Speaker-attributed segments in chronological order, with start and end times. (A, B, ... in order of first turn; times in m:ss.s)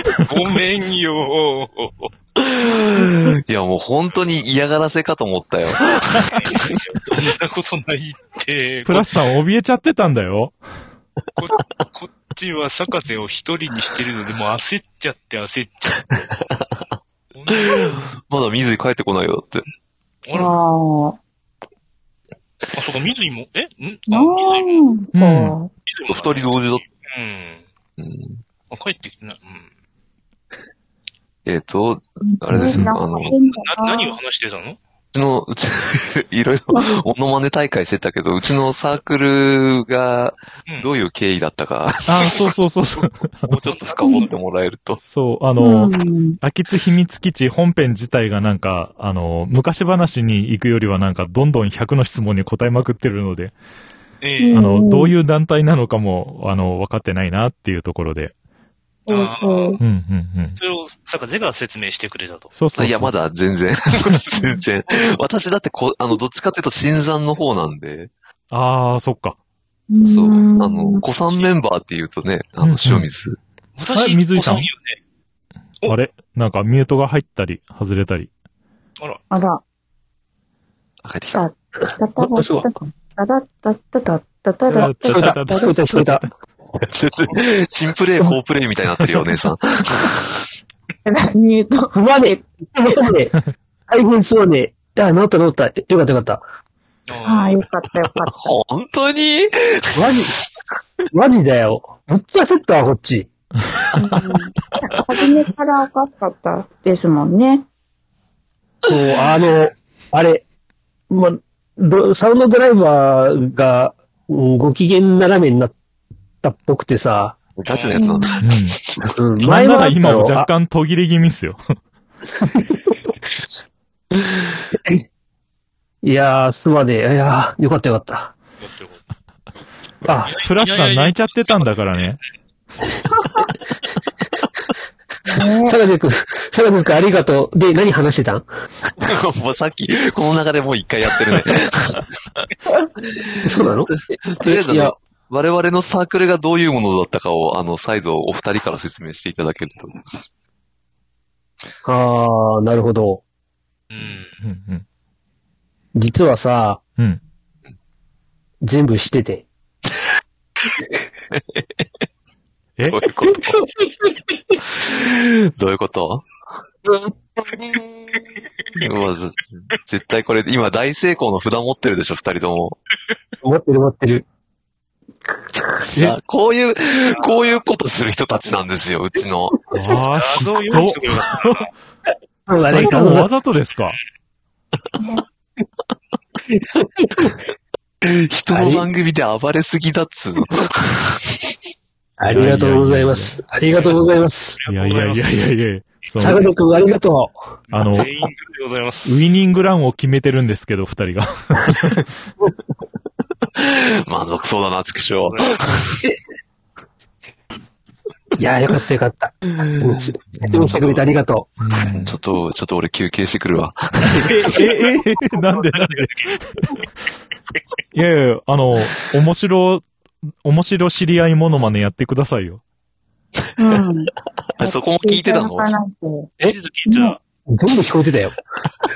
0:00.2-0:02.1 A
0:02.4-0:06.8 B
0:06.2-0:09.1 A
0:08.8-0:10.6 C
0:11.4-0:16.2 A
0:17.3-0:17.9 A
0:17.5-0:19.6 B
0:20.2-0:20.5 A
0:20.3-0:21.2 D
0:22.7-0:24.9 A
0:24.1-0:25.7 D
0:25.1-0:25.6 C
0:25.9-0:27.7 A
0:26.1-0:26.8 B
0:28.0-0:28.4 B
0:28.7-0:29.7 A
0:31.4-0:33.3 B
0:32.2-0:34.2 D
0:32.5-0:32.9 C
0:33.1-0:34.8 A
0:35.1-0:42.5 B
0:42.0-0:43.4 C
0:43.4-0:45.0 B
0:43.5-0:44.3 A
0:45.0-0:53.5 C
0:45.6-0:46.4 D
0:54.2-0:54.6 A
0:54.4-0:55.1 D
0:54.5-0:58.3 C
0:59.1-0:59.8 A
0:59.1-0:59.8 D
0:59.8-1:00.6 C
1:00.6-1:02.5 A
1:02.5-1:03.1 C
1:02.8-1:08.1 B
1:08.5-1:09.4 C
1:09.9-1:11.0 D
1:10.0-1:13.4 B
1:12.6-1:13.1 C
1:13.8-1:15.0 A
1:13.9-1:14.7 C
1:15.8-1:18.3 C
1:19.3-1:19.6 D
1:21.0-1:21.4 B
1:21.3-1:25.7 D
1:22.2-1:22.7 E
1:24.7-1:26.2 E
1:24.7-1:26.3 C
1:26.8-1:30.5 B
1:31.0-1:33.0 D
1:31.9-1:33.4 E
1:33.9-1:36.4 E
1:37.1-1:37.6 A
1:37.2-1:38.5 D
1:38.3-1:40.6 B
1:39.9-1:40.4 E
1:41.1-1:43.3 E
1:43.7-1:44.1 C
1:43.9-1:47.6 D
1:48.8-1:50.4 E
1:51.1-1:55.8 E
1:56.4-1:57.4 E
1:57.6-1:59.1 B
1:57.6-1:58.0 A
1:58.0-1:58.4 D
1:58.4-1:58.8 C
1:59.2-2:00.5 E
1:59.4-2:01.6 C
2:02.4-2:03.0 E
2:04.7-2:05.0 E
2:06.0-2:08.3 E
2:08.6-2:09.0 A
2:10.0-2:10.4 E
2:10.2-2:12.1 A
2:10.4-2:12.2 C
2:15.2-2:15.8 D
2:15.6-2:18.4 E
2:19.0-2:22.1 B
2:23.1-2:29.9 B
2:23.4-2:24.9 E
2:31.8-2:33.2 E
2:33.9-2:34.4 A
2:34.4-2:34.8 C
2:35.9-2:36.8 E
2:38.6-2:39.5 E
2:41.3-2:41.6 B
2:42.8-2:43.0 C
2:42.9-2:43.7 B
2:43.2-2:44.6 E
2:44.6-2:46.3 B
2:46.8-2:48.2 E
2:48.8-2:52.8 B
2:53.4-2:54.2 E
2:55.9-2:59.6 B
2:59.7-3:01.7 C
2:59.9-3:01.7 A
3:02.5-3:03.3 E
3:02.6-3:04.0 C
3:05.0-3:05.2 D
3:06.5-3:07.4 E
3:08.0-3:11.6 B
3:08.5-3:08.8 E
3:12.2-3:14.6 E
3:12.3-3:13.4 C
3:14.6-3:15.4 A
3:14.7-3:16.5 C
3:16.2-3:17.4 E
3:17.7-3:19.2 A
3:17.7-3:18.1 C
3:19.0-3:22.1 C
3:23.6-3:26.0 B
3:25.2-3:25.6 A
3:28.4-3:31.5 E
3:29.7-3:30.8 B
3:31.6-3:32.1 C
3:31.8-3:34.6 B
3:34.2-3:36.7 C
3:35.6-3:36.3 A
3:37.9-3:39.9 C
3:40.4-3:42.6 C
3:43.6-3:46.3 D
3:44.5-3:45.7 B
3:46.4-3:47.2 A
3:46.9-3:47.2 D
3:47.5-3:48.4 E